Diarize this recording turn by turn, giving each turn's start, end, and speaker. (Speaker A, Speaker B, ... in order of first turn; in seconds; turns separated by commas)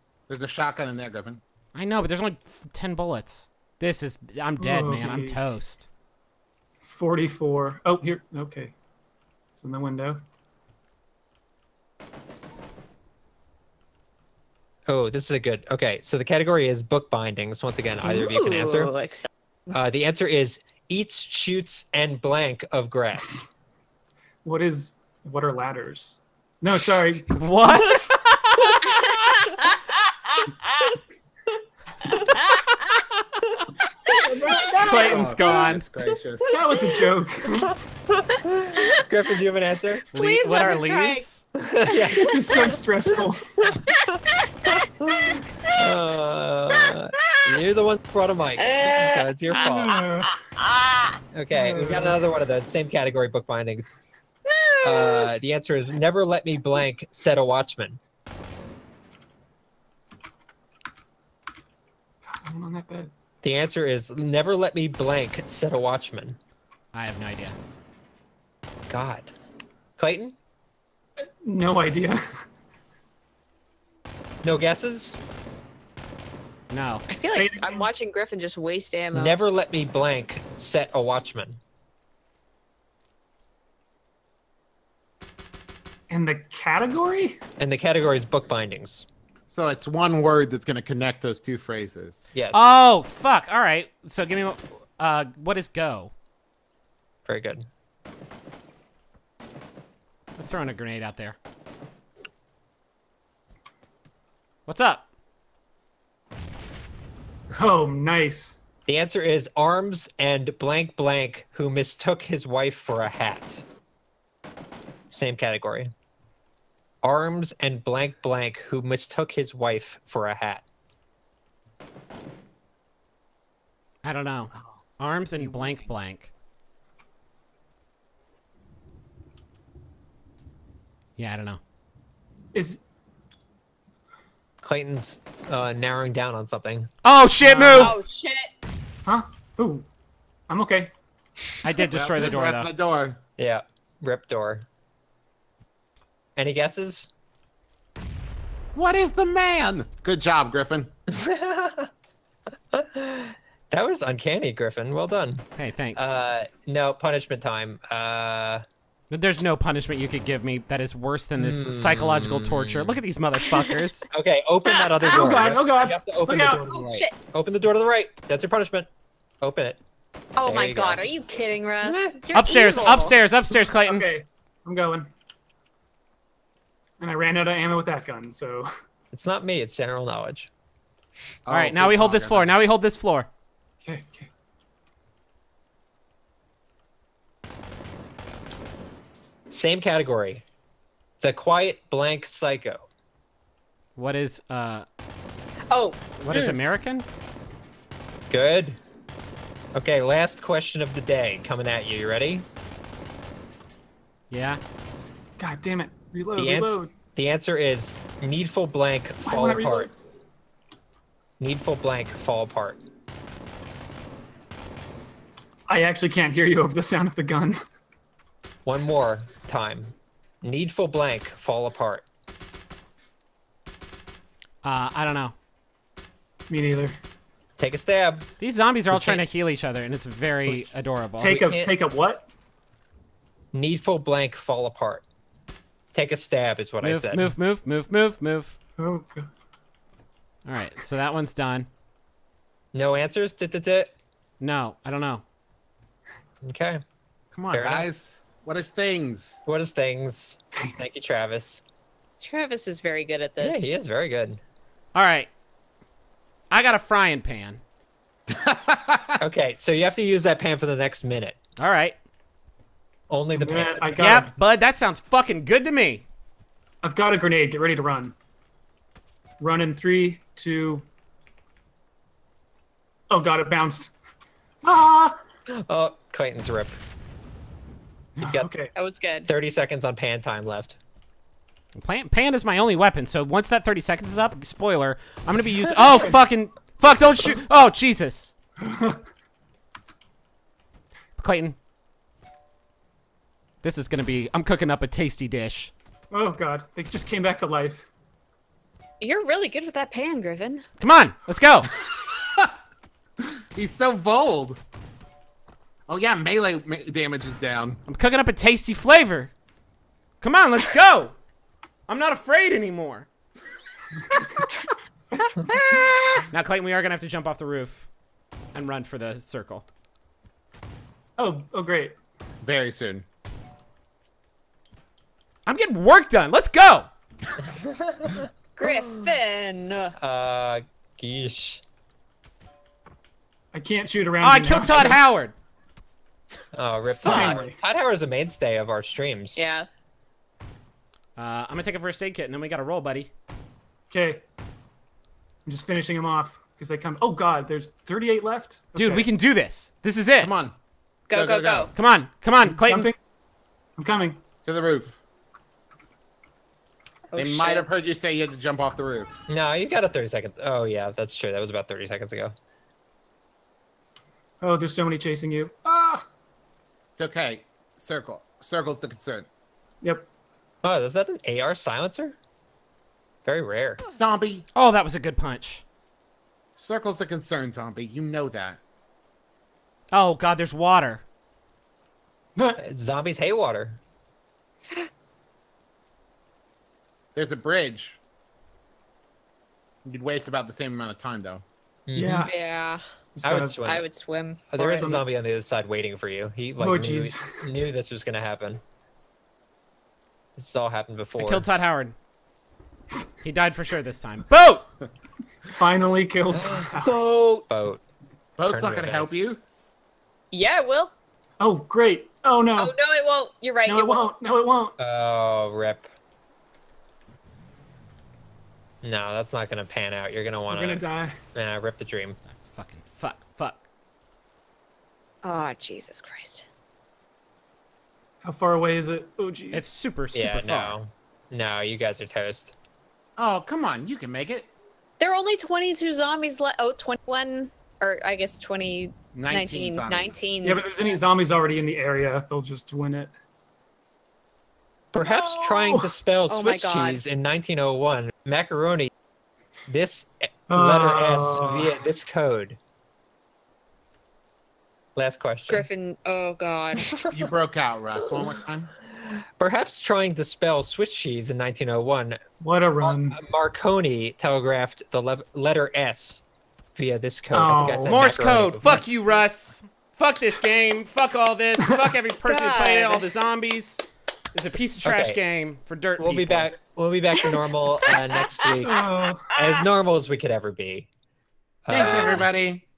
Speaker A: 0.3-1.4, Speaker B: 1.7-5.9, Speaker C: 4.6-5.4, Speaker C: 6.8-8.7, Speaker C: 9.6-10.2, Speaker D: 14.9-18.9, Speaker E: 18.0-19.7, Speaker D: 19.7-23.4, Speaker C: 24.4-27.4, Speaker B: 27.3-29.3, Speaker E: 28.8-29.8, Speaker E: 32.1-32.8, Speaker E: 34.1-34.8, Speaker C: 34.1-35.6, Speaker B: 34.7-35.8, Speaker A: 35.0-36.6, Speaker C: 36.5-37.7, Speaker D: 37.6-40.0, Speaker B: 40.1-41.4, Speaker E: 40.1-41.2, Speaker D: 41.6-42.8, Speaker C: 41.9-43.6, Speaker D: 43.7-44.2, Speaker E: 43.9-45.7, Speaker D: 45.0-50.0, Speaker E: 48.6-51.2, Speaker C: 49.7-50.3, Speaker D: 51.3-54.0, Speaker C: 51.5-52.2, Speaker E: 54.5-55.4, Speaker D: 54.8-58.0, Speaker C: 62.3-63.1, Speaker D: 63.4-66.4, Speaker B: 66.9-67.6, Speaker D: 68.9-69.3, Speaker D: 70.0-70.4, Speaker C: 71.2-72.4, Speaker D: 74.4-75.2, Speaker B: 76.7-77.1, Speaker E: 77.1-79.4, Speaker C: 77.2-77.9, Speaker D: 79.1-81.6, Speaker C: 86.1-87.4, Speaker D: 87.6-89.1, Speaker A: 89.5-92.2, Speaker D: 92.3-92.6, Speaker B: 92.5-96.1, Speaker D: 97.3-97.7, Speaker B: 100.4-101.4, Speaker B: 104.7-105.1, Speaker C: 107.5-108.5, Speaker D: 108.9-113.6, Speaker D: 115.1-115.9, Speaker D: 117.0-120.6, Speaker B: 124.0-126.3, Speaker B: 131.2-131.6, Speaker C: 132.5-132.8, Speaker D: 134.6-136.9, Speaker B: 137.0-138.0, Speaker C: 137.4-138.0, Speaker E: 137.7-138.5, Speaker C: 139.1-139.9, Speaker C: 140.5-140.9, Speaker B: 141.6-142.7, Speaker C: 141.8-142.2, Speaker A: 142.2-143.2, Speaker D: 143.4-144.7, Speaker D: 146.4-147.1, Speaker A: 148.7-150.9, Speaker D: 151.1-151.9, Speaker D: 152.7-158.7, Speaker B: 155.6-156.2, Speaker B: 159.1-164.1, Speaker D: 161.4-163.0, Speaker E: 163.5-163.8, Speaker D: 164.1-166.7, Speaker C: 165.0-167.1, Speaker E: 166.6-167.2, Speaker D: 167.2-168.9, Speaker D: 169.4-169.8, Speaker E: 170.4-173.2, Speaker D: 170.4-171.1, Speaker D: 171.8-172.2, Speaker B: 172.3-174.1, Speaker C: 173.7-175.1, Speaker C: 177.0-178.7, Speaker D: 179.1-180.5, Speaker A: 181.4-182.5, Speaker B: 181.5-183.3, Speaker C: 183.8-184.3, Speaker D: 189.5-190.4, Speaker D: 191.2-192.9, Speaker B: 193.9-194.9, Speaker E: 195.7-196.0, Speaker B: 196.2-197.1, Speaker A: 196.3-196.6, Speaker D: 198.3-198.8, Speaker D: 199.7-202.4, Speaker B: 204.3-204.6, Speaker C: 205.4-206.9, Speaker D: 206.4-209.9, Speaker C: 209.2-209.9, Speaker D: 211.4-212.8, Speaker C: 215.7-217.6, Speaker D: 218.7-222.1, Speaker B: 224.6-225.3, Speaker C: 226.5-227.0, Speaker D: 227.6-228.3, Speaker B: 228.4-231.4, Speaker D: 228.9-229.2, Speaker C: 231.2-232.3, Speaker D: 231.2-231.7, Speaker D: 233.5-235.0, Speaker D: 235.9-237.3, Speaker B: 236.8-238.6, Speaker C: 238.8-239.3, Speaker B: 240.4-241.7, Speaker D: 242.7-243.9, Speaker B: 244.4-245.2, Speaker D: 246.4-246.8, Speaker A: 247.3-249.4, Speaker D: 247.5-247.9, Speaker D: 249.4-251.6, Speaker E: 252.2-253.7, Speaker D: 253.4-254.4, Speaker B: 254.9-255.3, Speaker B: 256.5-257.6, Speaker A: 258.3-259.2, Speaker D: 259.2-261.4, Speaker B: 261.6-261.9, Speaker D: 263.1-264.2, Speaker C: 263.3-264.3, Speaker B: 264.0-266.0, Speaker C: 266.8-268.1, Speaker C: 269.4-270.9, Speaker C: 273.1-273.9, Speaker C: 274.6-275.2, Speaker D: 275.5-276.8, Speaker D: 278.2-278.5, Speaker C: 278.2-278.7, Speaker E: 278.7-279.3, Speaker D: 279.3-280.8, Speaker B: 281.7-288.3, Speaker C: 288.6-289.0, Speaker B: 291.2-291.6, Speaker B: 293.6-295.7, Speaker C: 296.1-297.9, Speaker E: 299.0-300.6, Speaker B: 300.8-301.7, Speaker A: 302.1-302.5, Speaker A: 303.6-304.6, Speaker A: 305.9-307.8, Speaker B: 307.9-309.3, Speaker B: 310.2-311.1, Speaker B: 311.9-313.1, Speaker E: 315.3-316.3, Speaker B: 316.3-317.9, Speaker B: 318.5-319.7, Speaker C: 321.2-322.0, Speaker A: 322.4-323.1, Speaker B: 325.4-326.9, Speaker D: 327.6-328.7, Speaker E: 328.6-329.9, Speaker D: 330.0-331.6, Speaker C: 333.5-335.0, Speaker B: 334.2-335.3, Speaker D: 336.5-339.4, Speaker C: 337.0-337.6, Speaker E: 339.4-339.7, Speaker B: 341.2-343.1, Speaker C: 343.9-344.2, Speaker C: 345.4-349.1, Speaker B: 348.7-350.3, Speaker A: 350.2-350.6, Speaker A: 351.1-351.7, Speaker E: 351.1-351.7, Speaker B: 351.7-352.9, Speaker C: 352.6-353.0, Speaker C: 353.8-354.2, Speaker A: 354.4-355.0, Speaker E: 357.1-357.7, Speaker A: 357.2-359.1, Speaker D: 359.3-362.3, Speaker C: 364.4-366.1, Speaker A: 367.0-369.3, Speaker C: 369.8-370.1, Speaker D: 370.6-372.2, Speaker D: 373.2-373.8, Speaker A: 374.0-374.4, Speaker B: 374.6-375.6, Speaker A: 376.6-378.6, Speaker B: 379.9-381.0, Speaker D: 382.6-383.8, Speaker A: 387.1-388.0, Speaker A: 389.9-391.4, Speaker D: 391.9-392.3, Speaker C: 391.9-392.3, Speaker E: 392.2-392.8, Speaker C: 393.2-393.6, Speaker D: 393.2-393.9, Speaker E: 393.6-394.9, Speaker D: 394.5-398.6, Speaker C: 394.6-395.0, Speaker C: 396.6-397.4, Speaker D: 400.4-401.5, Speaker B: 401.2-401.9, Speaker B: 403.2-404.7, Speaker C: 405.6-407.0, Speaker D: 406.3-406.7, Speaker D: 407.5-407.8, Speaker A: 408.4-409.4, Speaker D: 408.5-409.3, Speaker E: 410.3-410.9, Speaker C: 411.4-412.7, Speaker E: 412.6-414.1, Speaker C: 413.7-414.7, Speaker D: 414.8-415.9, Speaker D: 418.8-420.8, Speaker C: 420.5-421.2, Speaker D: 421.3-422.2, Speaker B: 422.3-423.6, Speaker E: 425.2-426.4, Speaker C: 428.2-429.6, Speaker B: 429.5-430.8, Speaker D: 430.1-432.6, Speaker A: 433.2-434.5, Speaker E: 435.0-440.6, Speaker A: 439.1-440.2, Speaker C: 440.4-443.1, Speaker D: 444.9-448.9, Speaker C: 445.0-445.9, Speaker E: 446.3-447.0, Speaker D: 449.7-452.6, Speaker C: 450.5-451.8, Speaker D: 454.9-455.7, Speaker E: 455.5-457.0, Speaker A: 457.1-458.7, Speaker D: 459.1-462.2, Speaker C: 462.4-463.2, Speaker D: 462.8-466.2, Speaker D: 466.8-468.8, Speaker C: 467.3-468.2, Speaker B: 467.7-476.5, Speaker E: 472.3-473.1, Speaker D: 474.8-475.2, Speaker D: 476.0-480.9, Speaker E: 478.6-479.6, Speaker C: 478.6-479.3, Speaker D: 481.6-482.3, Speaker A: 481.7-482.6, Speaker E: 481.8-482.2